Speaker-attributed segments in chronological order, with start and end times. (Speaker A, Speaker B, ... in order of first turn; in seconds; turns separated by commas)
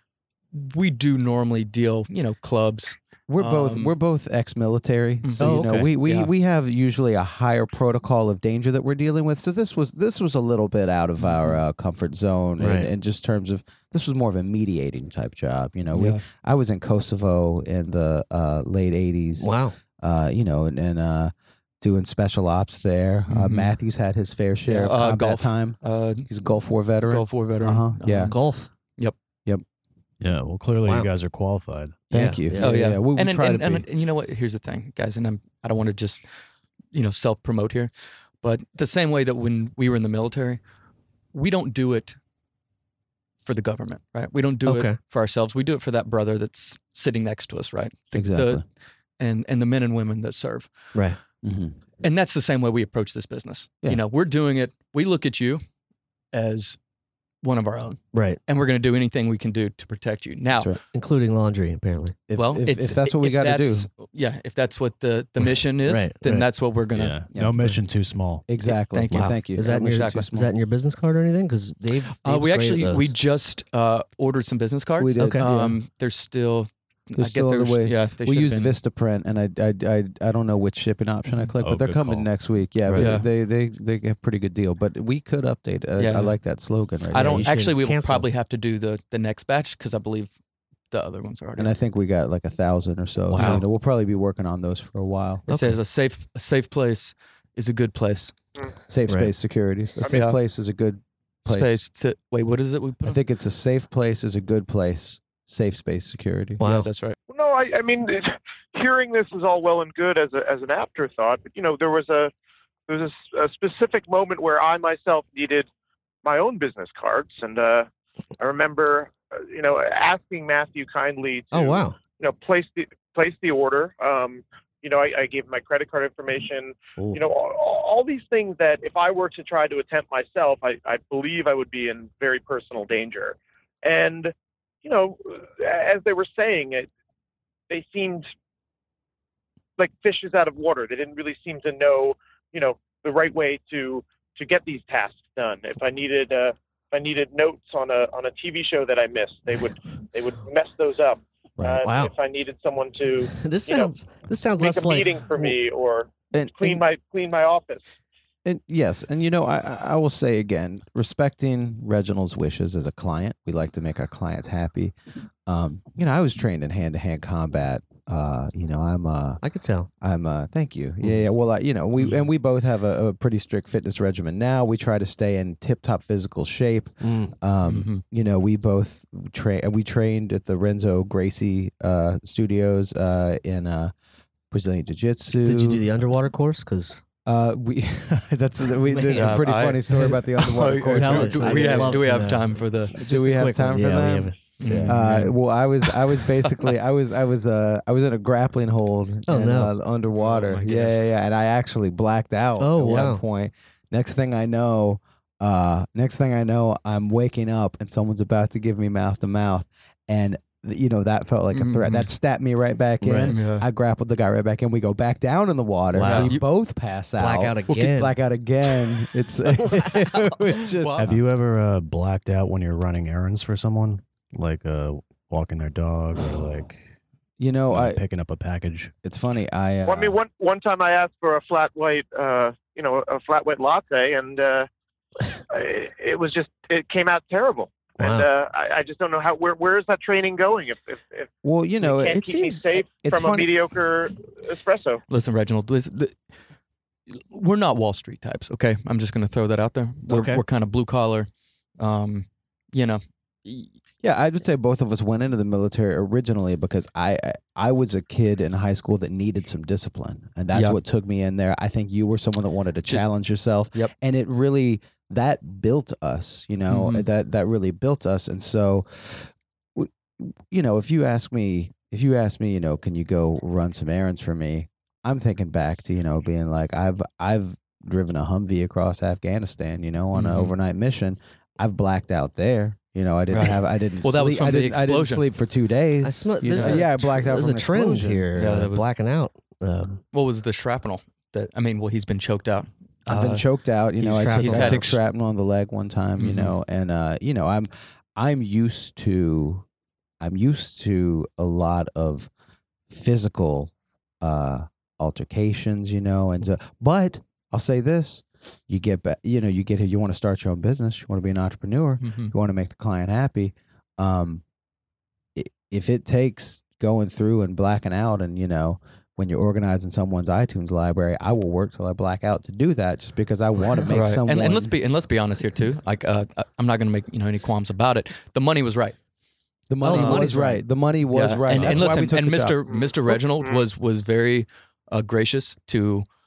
Speaker A: 0.5-3.9, Speaker B: 3.3-28.3, Speaker A: 5.2-6.3, Speaker C: 5.4-5.9, Speaker A: 11.2-11.6, Speaker C: 12.6-12.9, Speaker A: 15.9-16.2, Speaker C: 19.4-19.8, Speaker A: 23.3-23.7, Speaker A: 24.6-26.3, Speaker A: 27.0-28.4, Speaker C: 28.3-28.7, Speaker D: 30.2-32.0, Speaker C: 30.8-31.1, Speaker C: 32.1-32.8, Speaker B: 32.1-33.9, Speaker A: 32.5-36.2, Speaker A: 36.9-40.6, Speaker A: 41.3-42.2, Speaker A: 43.4-48.6, Speaker C: 44.6-45.0, Speaker B: 48.1-48.6, Speaker A: 49.2-50.9, Speaker B: 51.4-51.8, Speaker A: 52.0-55.6, Speaker A: 56.3-56.8, Speaker A: 57.4-60.7, Speaker C: 58.1-58.4, Speaker B: 60.5-60.8, Speaker C: 60.9-62.1, Speaker B: 62.3-63.9, Speaker A: 62.4-67.3, Speaker C: 65.8-66.5, Speaker D: 66.9-68.5, Speaker B: 67.3-67.7, Speaker B: 68.5-70.5, Speaker A: 68.6-70.3, Speaker C: 69.1-73.1, Speaker A: 72.2-78.8, Speaker B: 75.0-75.8, Speaker C: 75.2-75.5, Speaker B: 77.2-87.5, Speaker D: 81.6-82.3, Speaker D: 82.8-83.2, Speaker A: 82.9-83.3, Speaker A: 86.0-86.4, Speaker A: 87.1-90.3, Speaker C: 87.1-88.3, Speaker A: 90.9-91.7, Speaker B: 91.6-95.4, Speaker A: 93.3-93.7, Speaker C: 93.4-93.6, Speaker C: 95.5-95.8, Speaker A: 95.5-98.3, Speaker B: 98.9-101.8, Speaker C: 99.1-99.3, Speaker A: 100.0-100.4, Speaker A: 101.4-103.2, Speaker B: 103.0-106.6, Speaker C: 106.6-106.9, Speaker A: 106.6-107.2, Speaker E: 107.3-112.3, Speaker E: 112.9-115.7, Speaker E: 116.2-117.9, Speaker E: 118.4-136.9, Speaker C: 121.5-122.0, Speaker E: 137.7-138.3, Speaker E: 139.8-153.9, Speaker C: 151.8-152.1, Speaker C: 153.3-155.5, Speaker E: 154.6-157.8, Speaker B: 156.3-156.8, Speaker B: 158.4-164.9, Speaker B: 165.4-169.4, Speaker C: 169.4-169.9, Speaker B: 170.0-183.9, Speaker C: 177.0-177.3, Speaker A: 177.6-178.0, Speaker B: 184.5-185.8, Speaker C: 185.4-187.0, Speaker B: 187.2-192.2, Speaker C: 188.9-189.4, Speaker A: 189.1-192.9, Speaker C: 190.9-195.0, Speaker B: 192.9-194.3, Speaker A: 194.6-195.4, Speaker B: 194.8-221.2, Speaker C: 199.3-199.7, Speaker A: 200.1-201.0, Speaker C: 202.6-203.2, Speaker A: 211.5-212.1, Speaker C: 213.0-213.3, Speaker A: 213.2-213.6, Speaker C: 215.9-216.4, Speaker A: 216.0-216.4, Speaker C: 217.2-218.1, Speaker A: 220.8-221.1, Speaker D: 221.0-226.8, Speaker B: 227.4-228.0, Speaker D: 227.7-228.9, Speaker B: 229.0-230.2, Speaker E: 229.8-234.7, Speaker E: 235.5-241.3, Speaker C: 238.0-238.3, Speaker B: 241.4-243.5, Speaker E: 241.8-245.0, Speaker A: 245.1-246.2, Speaker A: 247.1-251.3, Speaker C: 250.1-250.4, Speaker A: 251.8-253.7, Speaker B: 254.0-288.3, Speaker A: 260.5-260.8, Speaker A: 266.7-267.1, Speaker A: 280.1-280.5, Speaker A: 283.3-285.2, Speaker C: 286.0-290.0, Speaker A: 286.4-286.8, Speaker A: 288.4-288.9, Speaker A: 290.1-293.4, Speaker B: 293.1-299.6, Speaker A: 294.0-295.0, Speaker C: 294.0-294.9, Speaker A: 296.2-296.6, Speaker B: 300.2-302.3, Speaker B: 302.9-314.4, Speaker A: 312.0-312.3, Speaker B: 315.4-324.8, Speaker A: 323.9-329.0, Speaker B: 329.7-332.6, Speaker C: 329.8-330.6, Speaker A: 329.9-330.3, Speaker A: 331.1-336.1, Speaker D: 331.6-331.9, Speaker E: 332.7-333.6